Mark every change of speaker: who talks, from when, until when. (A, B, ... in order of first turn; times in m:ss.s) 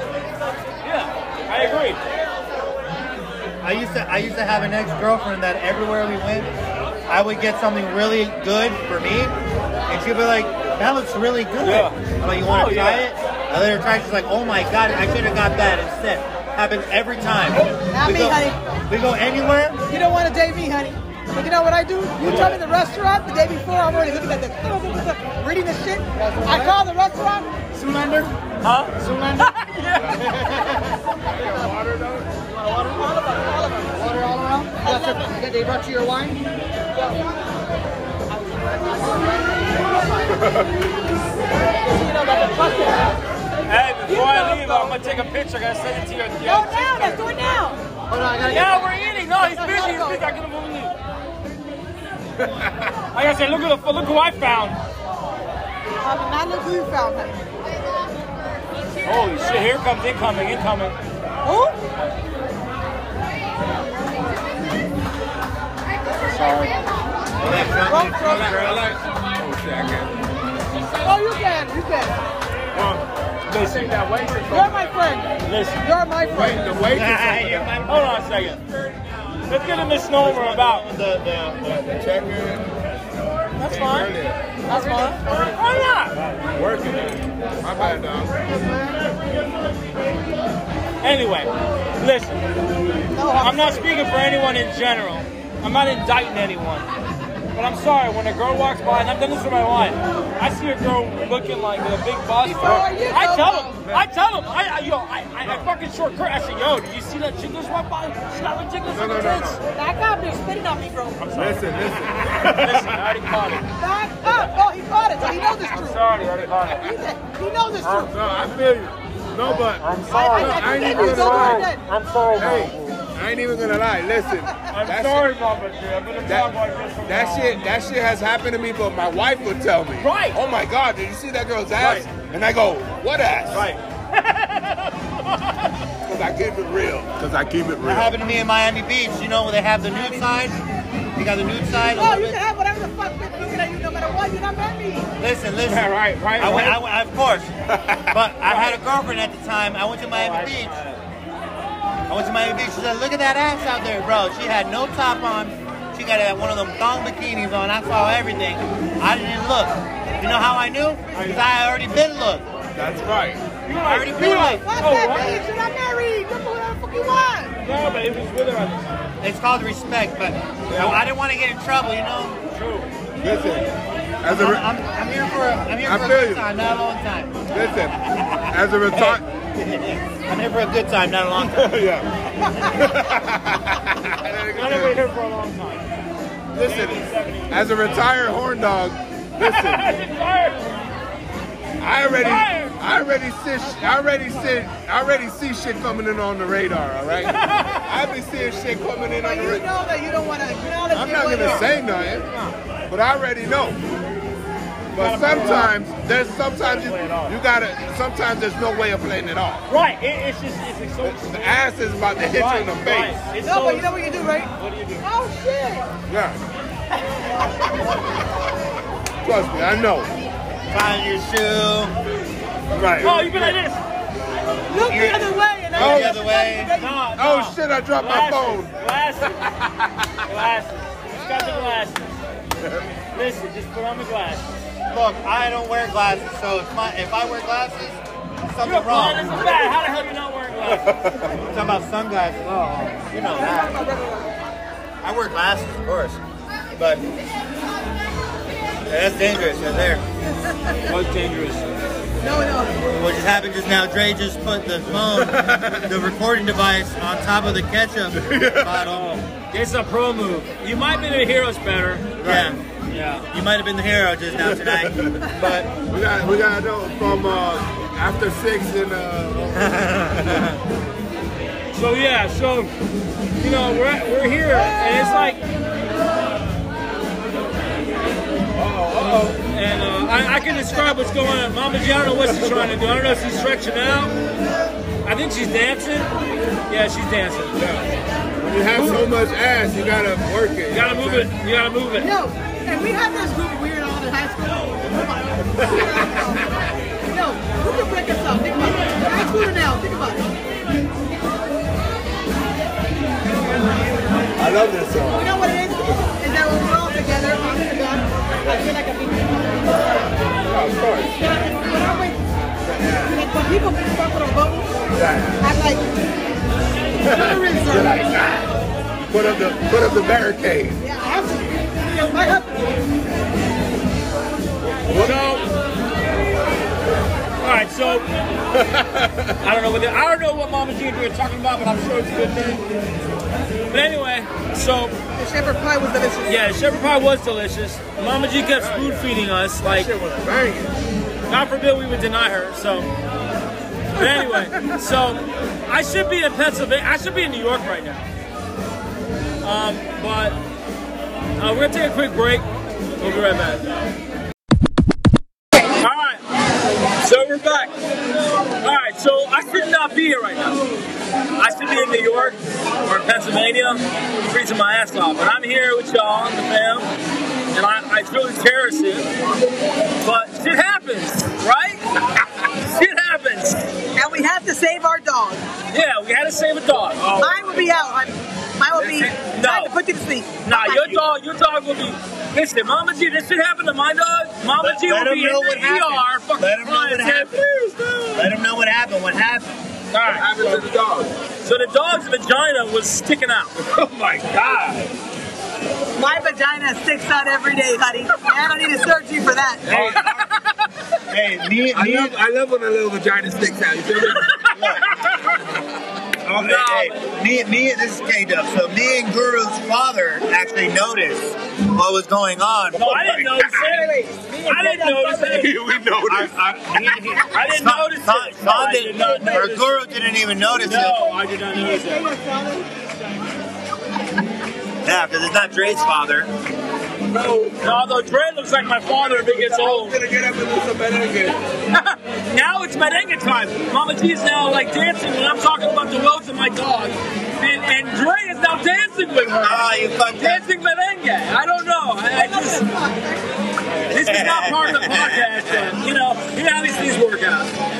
0:00.8-0:02.0 A
0:03.6-0:06.5 B
0:07.1-0:09.4 B
0:09.9-0:19.8 B
0:11.6-0:13.1 A
0:17.9-0:18.6 C
0:19.9-0:27.6 C
0:22.2-0:22.6 A
0:26.2-0:26.7 D
0:27.7-0:28.3 D
0:28.6-0:30.5 A
0:29.0-0:29.5 D
0:30.0-0:30.3 E
0:30.4-0:30.8 D
0:31.3-0:32.3 E
0:32.6-0:34.2 C
0:34.0-0:36.4 D
0:34.8-0:35.4 C
0:36.9-0:37.2 C
0:38.3-0:40.4 C
0:40.3-0:40.7 E
0:41.8-0:43.1 C
0:43.7-0:47.2 A
0:44.1-0:45.0 C
0:46.4-0:50.3 C
0:48.1-0:48.8 D
0:48.4-0:51.0 A
0:53.1-0:54.8 A
0:56.0-0:57.4 C
0:59.0-1:01.0 A
1:01.4-1:01.8 C
1:06.2-1:06.8 A
1:07.4-1:08.9 B
1:07.9-1:08.7 C
1:08.2-1:10.2 E
1:11.0-1:12.2 C
1:12.7-1:15.0 E
1:13.5-1:14.0 A
1:14.5-1:15.3 C
1:15.4-1:15.8 A
1:15.8-1:16.7 C
1:16.3-1:17.8 E
1:16.9-1:18.0 B
1:17.8-1:18.6 A
1:19.5-1:20.9 A
1:20.2-1:21.7 B
1:21.6-1:22.7 E
1:23.6-1:24.4 E
1:23.6-1:24.1 C
1:23.6-1:24.1 A
1:24.7-1:25.2 C
1:24.7-1:26.2 A
1:26.6-1:28.9 E
1:31.0-1:32.5 A
1:33.1-1:33.9 C
1:33.4-1:36.9 A
1:37.6-1:49.6 A
1:42.4-1:43.8 C
1:42.6-1:42.9 E
1:48.9-1:49.6 E
1:49.6-1:51.3 C
1:51.2-1:53.7 A
1:51.4-1:53.2 E
1:53.8-1:56.0 C
1:55.2-1:56.9 A
1:56.8-1:58.2 C
1:57.8-2:01.7 E
1:59.5-2:03.0 A
2:00.1-2:01.8 C
2:02.4-2:05.4 E
2:04.7-2:07.6 A
2:06.3-2:13.7 E
2:10.0-2:10.4 A
2:11.8-2:12.1 A
2:13.5-2:15.8 A
2:16.0-2:18.2 E
2:17.8-2:20.6 B
2:21.2-2:22.4 B
2:22.0-2:25.1 C
2:25.2-2:27.5 B
2:25.6-2:26.8 A
2:27.7-2:28.2 E
2:28.1-2:30.8 B
2:28.4-2:28.8 A
2:30.1-2:31.0 A
2:32.1-2:42.4 B
2:40.1-2:40.6 C
2:42.8-2:43.4 E
2:43.6-2:45.4 A
2:43.8-2:44.6 B
2:44.2-2:47.6 C
2:47.6-2:48.9 A
2:49.2-2:52.4 B
2:50.7-2:51.0 E
2:52.5-2:52.9 A
2:53.2-2:53.7 E
2:54.2-2:54.7 E
2:54.2-3:01.8 B
2:55.8-2:56.5 E
2:57.5-2:59.2 E
3:01.4-3:02.1 E
3:02.6-3:05.0 E
3:04.5-3:05.9 A
3:06.5-3:09.9 E
3:06.6-3:07.8 A
3:09.4-3:10.7 A
3:11.8-3:19.6 E
3:12.1-3:12.8 A
3:17.2-3:17.9 A
3:19.2-3:21.8 C
3:20.9-3:22.3 E
3:22.2-3:22.6 A
3:22.9-3:23.8 E
3:24.9-3:25.8 A
3:24.9-3:29.6 E
3:26.6-3:27.4 A
3:29.7-3:31.6 A
3:31.0-3:33.2 E
3:32.3-3:34.0 A
3:33.4-3:35.9 C
3:34.6-3:35.1 A
3:36.1-3:36.4 E
3:39.2-3:40.1 E
3:40.7-3:41.9 B
3:42.7-3:43.5 E
3:43.0-3:43.8 A
3:44.7-3:47.0 C
3:44.8-3:46.7 B
3:45.8-3:46.2 E
3:46.7-3:49.5 A
3:47.2-3:48.7 E
3:49.6-3:50.2 E
3:50.2-3:52.2 A
3:53.1-3:54.5 A
3:54.9-3:59.6 B
3:58.6-4:01.1 A
4:00.8-4:01.4 E
4:01.4-4:03.8 B
4:03.2-4:04.3 C
4:05.0-4:06.2 B
4:06.8-4:07.0 B
4:08.9-4:10.0 B
4:10.4-4:10.8 C
4:10.8-4:11.7 A
4:12.2-4:12.8 C
4:12.9-4:19.2 B
4:15.2-4:15.9 E
4:18.2-4:18.9 E
4:19.3-4:22.1 A
4:22.2-4:22.6 E
4:22.2-4:22.6 B
4:22.9-4:23.2 A
4:23.3-4:25.7 B
4:24.4-4:29.7 E
4:29.6-4:30.6 B
4:31.7-4:32.7 A
4:33.4-4:35.4 A
4:38.6-4:39.4 E
4:39.3-4:44.1 A
4:40.4-4:41.2 C
4:42.3-4:42.8 E
4:45.0-4:46.1 A
4:46.7-4:47.6 A
4:47.6-4:51.3 E
4:48.7-4:49.1 A
4:50.7-4:52.1 A
4:52.0-4:56.5 C
4:55.6-4:56.1 E
4:57.1-5:00.2 C
5:04.4-5:05.5 E
5:05.1-5:09.6 C
5:10.5-5:11.2 E
5:11.2-5:12.2 C
5:12.7-5:13.2 E
5:13.1-5:14.8 C
5:14.9-5:15.4 E
5:15.4-5:15.8 C
5:17.0-5:18.5 E
5:17.1-5:18.0 C
5:19.1-5:20.8 E
5:20.8-5:22.7 C
5:24.8-5:25.4 E
5:25.0-5:25.5 A
5:27.4-5:28.1 A
5:28.6-5:29.4 E
5:29.4-5:32.6 A
5:33.7-5:35.0 A
5:35.2-5:36.5 C
5:36.3-5:39.9 A
5:38.6-5:40.8 E
5:41.3-5:42.9 A
5:43.9-5:48.1 A
5:49.4-5:50.4 A
5:51.4-5:52.5 A
5:53.0-5:53.7 A
5:55.8-5:56.2 A
5:57.0-5:57.7 A
5:58.6-6:00.6 A
6:01.4-6:06.9 A
6:07.5-6:09.1 A
6:10.0-6:11.8 A
6:12.6-6:13.7 A
6:14.0-6:15.4 C
6:15.7-6:17.1 A
6:17.0-6:17.7 E
6:17.2-6:21.0 C
6:18.8-6:19.7 A
6:20.5-6:28.1 A
6:24.6-6:27.4 B
6:28.2-6:29.5 B
6:29.9-6:30.6 A
6:30.1-6:31.1 E
6:31.4-6:33.6 A
6:33.6-6:34.8 E
6:34.4-6:34.8 A
6:36.0-6:39.7 C
6:39.6-6:40.3 E
6:39.7-6:40.5 A
6:41.1-6:42.2 B
6:41.7-6:44.4 E
6:44.3-6:45.4 A
6:44.5-6:44.9 B
6:46.2-6:53.1 B
6:46.4-6:47.0 A
6:52.7-6:55.6 A
6:53.2-6:53.5 E
6:53.4-6:55.5 C
6:55.3-6:56.3 E
6:56.1-7:01.0 B
6:57.3-6:59.8 A
7:00.5-7:02.1 A
7:01.5-7:02.9 C
7:04.8-7:06.3 B
7:07.1-7:07.7 E
7:07.6-7:10.0 A
7:08.9-7:11.4 E
7:11.7-7:22.7 A
7:19.4-7:20.4 B
7:22.2-7:23.2 C
7:23.9-7:25.3 B
7:23.9-7:27.5 A